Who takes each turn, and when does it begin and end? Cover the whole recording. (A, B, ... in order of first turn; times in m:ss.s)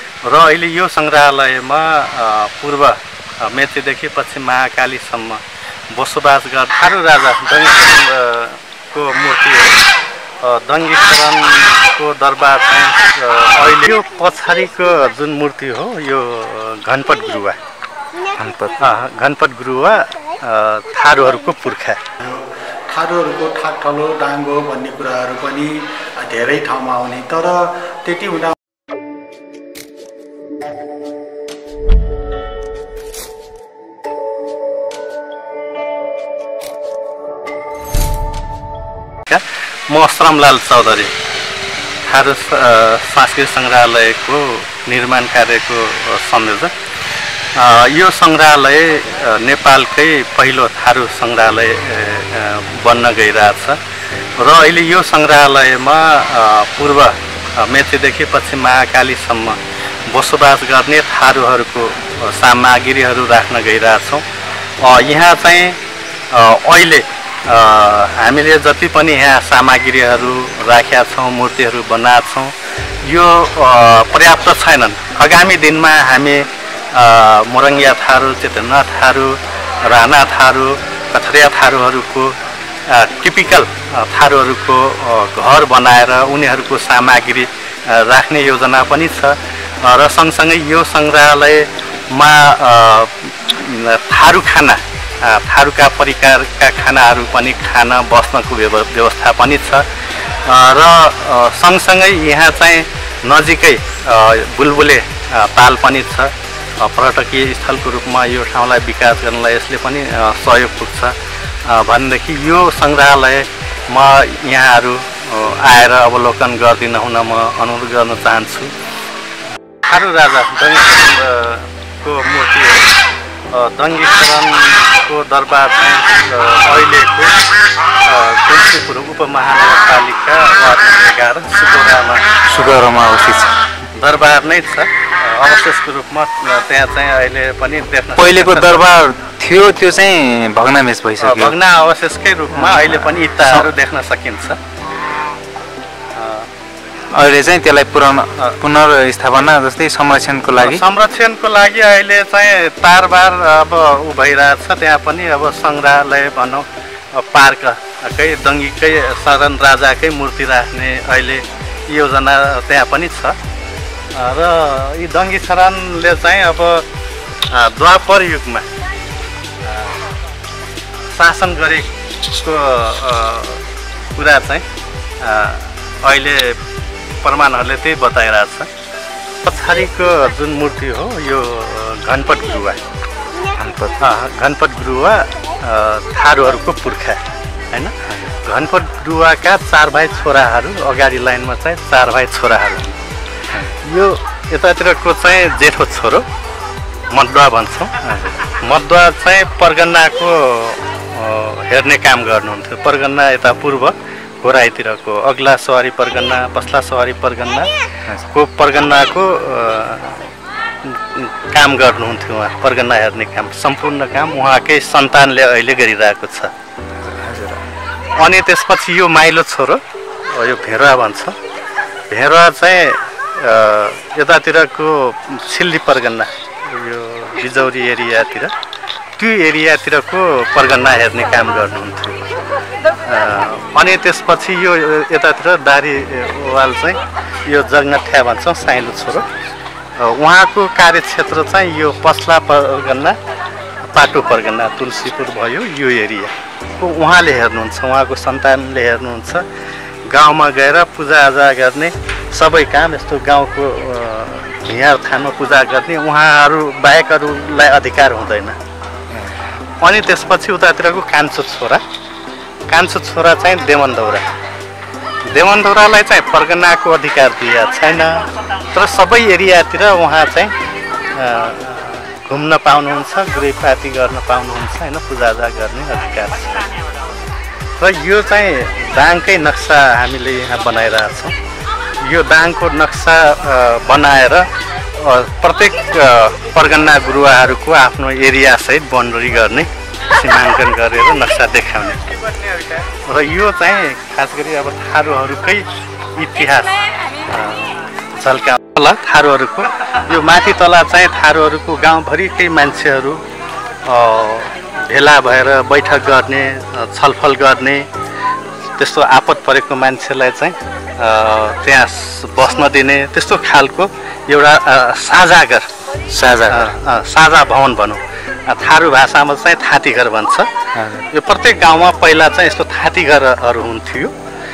0:00.2-0:09.8 A
0:10.4-0:17.6 A
0:18.4-0:18.8 B
0:18.8-0:22.0 A
0:22.2-0:28.6 C
0:39.3-0:41.1 A
0:42.0-0:46.7 A
0:47.6-0:53.8 A
0:54.4-1:04.3 A
1:04.8-1:05.8 A
1:06.3-1:39.9 A
1:40.4-1:58.8 A
1:59.8-2:02.9 A
2:03.5-2:07.4 A
2:08.0-2:12.8 A
2:12.5-2:13.5 B
2:14.0-2:18.8 A
2:18.2-2:21.6 B
2:21.2-2:24.6 A
2:22.5-2:23.7 B
2:26.2-2:26.5 A
2:27.1-2:30.8 B
2:30.6-2:43.4 A
2:44.1-2:46.9 A
2:47.5-2:48.7 A
2:49.6-2:50.0 A
2:51.1-2:53.6 A
2:54.1-2:54.6 A
2:55.2-2:56.6 A
2:57.2-2:58.7 A
2:59.4-3:02.8 A
3:03.6-3:04.0 B
3:04.0-3:13.0 A
3:08.1-3:08.3 B
3:13.5-3:13.8 B
3:13.8-3:16.3 A
3:17.1-3:30.3 A
3:30.8-3:36.5 A
3:36.9-3:37.6 B
3:38.1-3:41.4 A
3:42.1-3:48.5 A
3:49.2-3:52.3 A
3:53.0-3:59.4 A
4:00.0-4:03.2 A
4:03.8-4:09.5 A
4:10.1-4:18.6 A
4:19.1-4:19.4 B
4:19.8-4:21.8 A
4:22.7-4:24.3 A
4:25.2-4:30.5 A
4:31.1-4:36.7 A
4:37.8-4:41.4 A
4:42.0-4:52.1 A
4:52.8-5:03.2 A
5:03.8-5:07.9 A
5:08.8-5:15.7 A
5:16.1-5:16.7 B
5:16.3-5:20.5 A
5:20.7-5:21.1 B
5:21.1-5:24.1 A